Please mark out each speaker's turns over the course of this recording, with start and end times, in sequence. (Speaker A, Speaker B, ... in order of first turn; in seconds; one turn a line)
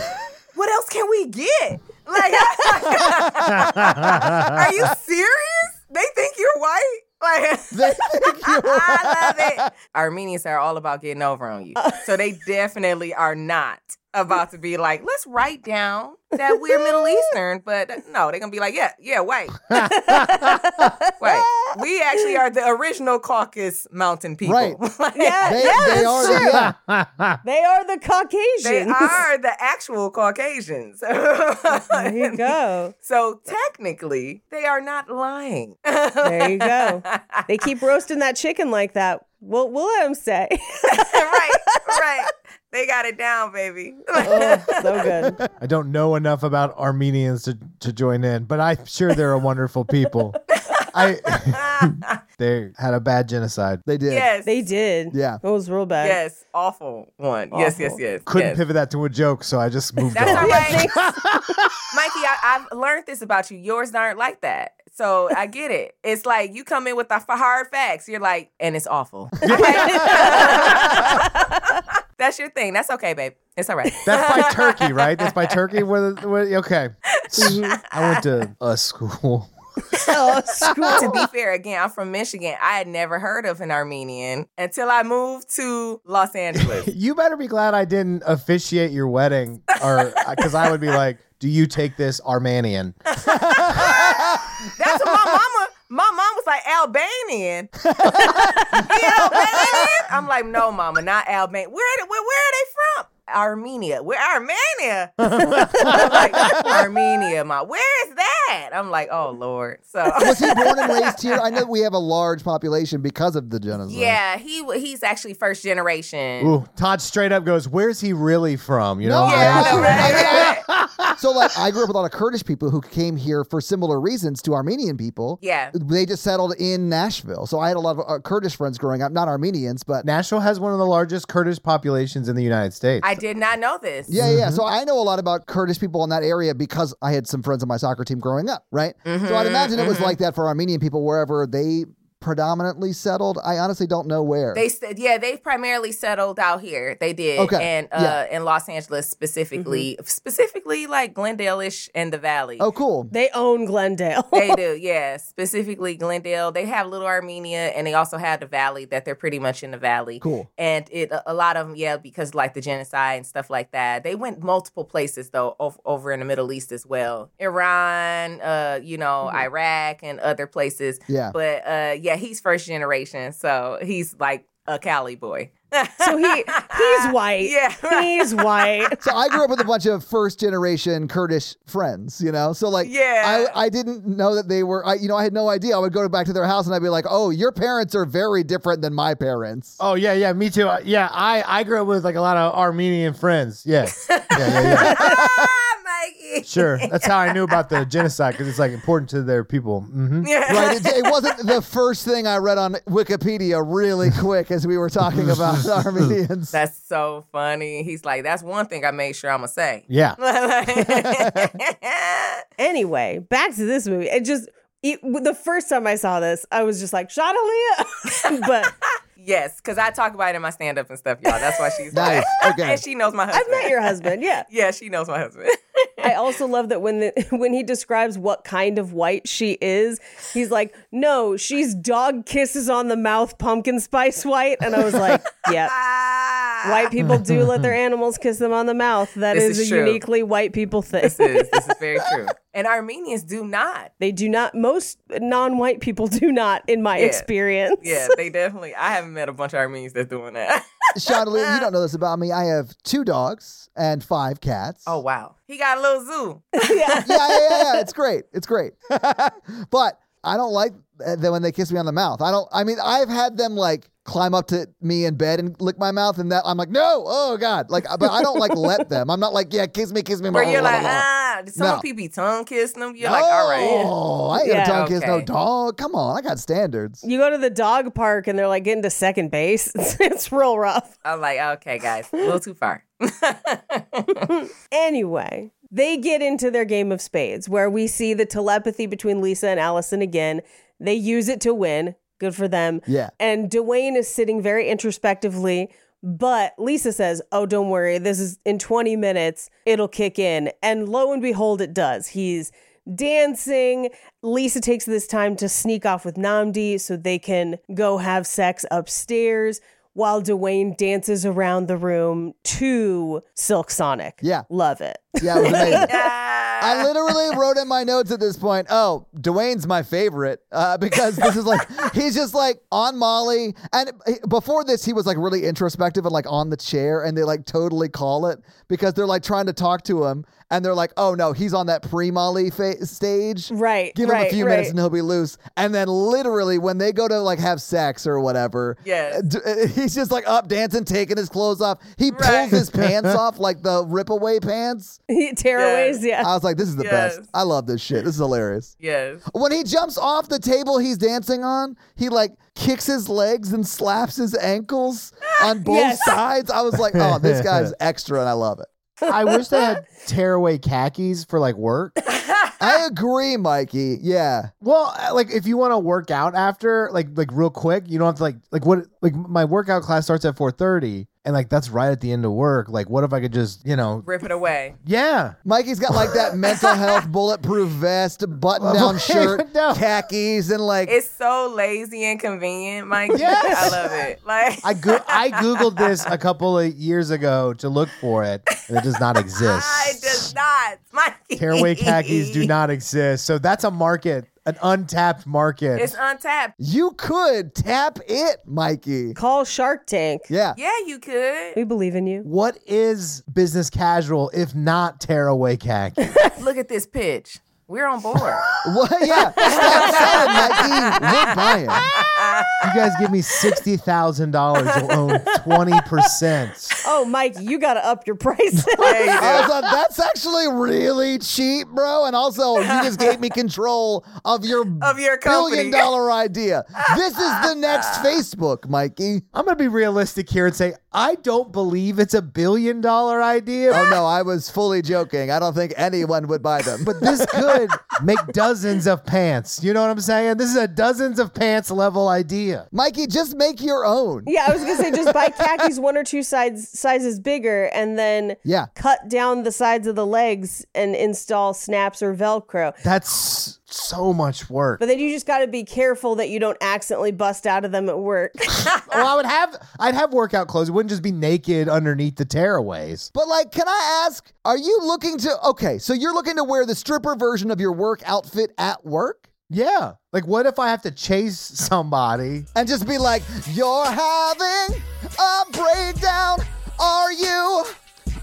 Speaker A: 0.5-19.7
Speaker B: 3.5-4.6
Speaker C: 7.7-9.7
Speaker D: 16.7-17.1
Speaker B: 19.7-20.9
Speaker D: 19.7-22.3
Speaker A: 21.2-26.0
Speaker C: 24.4-24.8
Speaker D: 25.1-26.6
Speaker C: 25.5-26.8
Speaker B: 26.4-27.4
Speaker D: 27.4-29.1
Speaker A: 28.6-37.4
Speaker D: 31.7-32.9
Speaker D: 36.2-42.0
Speaker A: 40.9-45.0
Speaker D: 44.2-45.4
Speaker B: 45.6-53.9
Speaker A: 50.5-52.1
Speaker C: 53.9-54.3
Speaker A: 54.1-54.5
Speaker D: 54.5-56.2
Speaker C: 55.1-55.4
Speaker A: 56.0-58.6
Speaker D: 57.5-58.0
Speaker B: 58.3-61.8
Speaker A: 60.1-60.9
Speaker D: 60.3-61.5
Speaker A: 61.9-75.6
Speaker B: 69.4-71.2
Speaker D: 69.5-71.8
Speaker B: 74.0-81.0
Speaker A: 77.2-78.2
Speaker D: 79.9-81.2
Speaker A: 80.9-86.9
Speaker B: 86.5-93.9
Speaker A: 90.0-90.5
Speaker A: 93.2-111.4
Speaker C: 93.5-94.4
Speaker B: 105.2-106.8
Speaker C: 110.2-114.2
Speaker A: 113.8-116.5
Speaker B: 116.4-121.2
Speaker C: 119.0-120.6
Speaker A: 119.2-120.7
Speaker C: 121.2-130.1
Speaker A: 125.4-125.7
Speaker B: 130.0-133.1
Speaker A: 133.0-134.1
Speaker C: 134.1-144.6
Speaker B: 134.2-134.6
Speaker A: 139.1-140.2
Speaker A: 144.5-152.7
Speaker C: 147.4-148.2
Speaker D: 149.6-149.9
Speaker C: 152.6-153.1
Speaker D: 153.1-154.6
Speaker A: 154.3-178.9
Speaker C: 160.2-160.5
Speaker C: 171.1-171.3
Speaker D: 176.0-179.0
Speaker C: 179.0-189.8
Speaker A: 182.8-183.6
Speaker B: 189.8-195.2
Speaker A: 194.1-197.8
Speaker C: 195.0-195.5
Speaker B: 196.4-200.3
Speaker A: 200.2-201.3
Speaker C: 200.5-206.6
Speaker A: 206.5-212.4
Speaker B: 209.9-210.2
Speaker B: 210.7-211.5
Speaker D: 212.6-218.7
Speaker A: 219.2-226.1
Speaker C: 221.9-222.8
Speaker D: 223.3-224.5
Speaker D: 226.0-235.8
Speaker A: 235.0-236.9
Speaker D: 236.6-241.6
Speaker B: 237.1-237.7
Speaker A: 239.3-240.0
Speaker A: 241.0-243.9
Speaker D: 244.0-248.2
Speaker A: 246.9-247.3
Speaker A: 247.8-251.7
Speaker C: 250.9-254.9
Speaker A: 254.9-257.0
Speaker D: 256.6-257.8
Speaker C: 257.0-271.9
Speaker D: 268.1-268.8
Speaker A: 270.3-273.8
Speaker C: 273.0-277.0
Speaker D: 273.6-274.8
Speaker A: 274.7-275.3
Speaker D: 277.0-280.9
Speaker A: 281.1-284.3
Speaker D: 284.3-315.9
Speaker C: 292.9-293.1
Speaker C: 314.2-314.5
Speaker C: 315.2-315.9
Speaker A: 315.9-316.9
Speaker C: 316.6-345.0
Speaker D: 333.5-334.7
Speaker A: 338.8-339.2
Speaker A: 342.1-342.6
Speaker B: 342.7-343.1
Speaker D: 345.1-346.3
Speaker A: 345.6-346.0
Speaker C: 346.2-348.7
Speaker A: 346.8-347.3
Speaker A: 348.8-349.2
Speaker C: 349.3-358.7
Speaker D: 355.7-356.2
Speaker B: 356.9-357.7
Speaker B: 359.1-362.0
Speaker C: 362.6-364.5
Speaker B: 364.6-374.1
Speaker A: 374.0-374.8
Speaker B: 374.8-375.4
Speaker C: 375.4-381.0
Speaker B: 378.6-379.8
Speaker A: 380.9-386.0
Speaker B: 383.1-383.9
Speaker B: 384.6-390.3
Speaker A: 389.4-392.5
Speaker B: 391.4-396.0
Speaker A: 395.8-396.5
Speaker C: 396.6-399.2
Speaker D: 399.2-400.3
Speaker C: 400.3-400.6
Speaker A: 400.6-401.6
Speaker D: 401.6-402.3
Speaker B: 402.2-406.2
Speaker A: 406.4-408.4
Speaker C: 408.6-411.9
Speaker D: 409.1-410.7
Speaker A: 409.4-411.2
Speaker A: 411.9-412.6
Speaker B: 412.6-416.8
Speaker D: 416.8-419.4
Speaker A: 418.8-419.5
Speaker C: 419.1-429.3
Speaker A: 422.6-423.1
Speaker A: 424.8-425.9
Speaker A: 426.9-428.1
Speaker B: 429.3-433.8
Speaker C: 433.7-437.9
Speaker B: 436.9-442.7
Speaker C: 442.7-445.1
Speaker D: 444.3-452.8
Speaker C: 448.4-448.7
Speaker B: 452.8-454.8
Speaker D: 454.8-458.6
Speaker B: 458.9-463.1
Speaker C: 463.1-469.3
Speaker B: 469.5-472.5
Speaker C: 472.6-477.7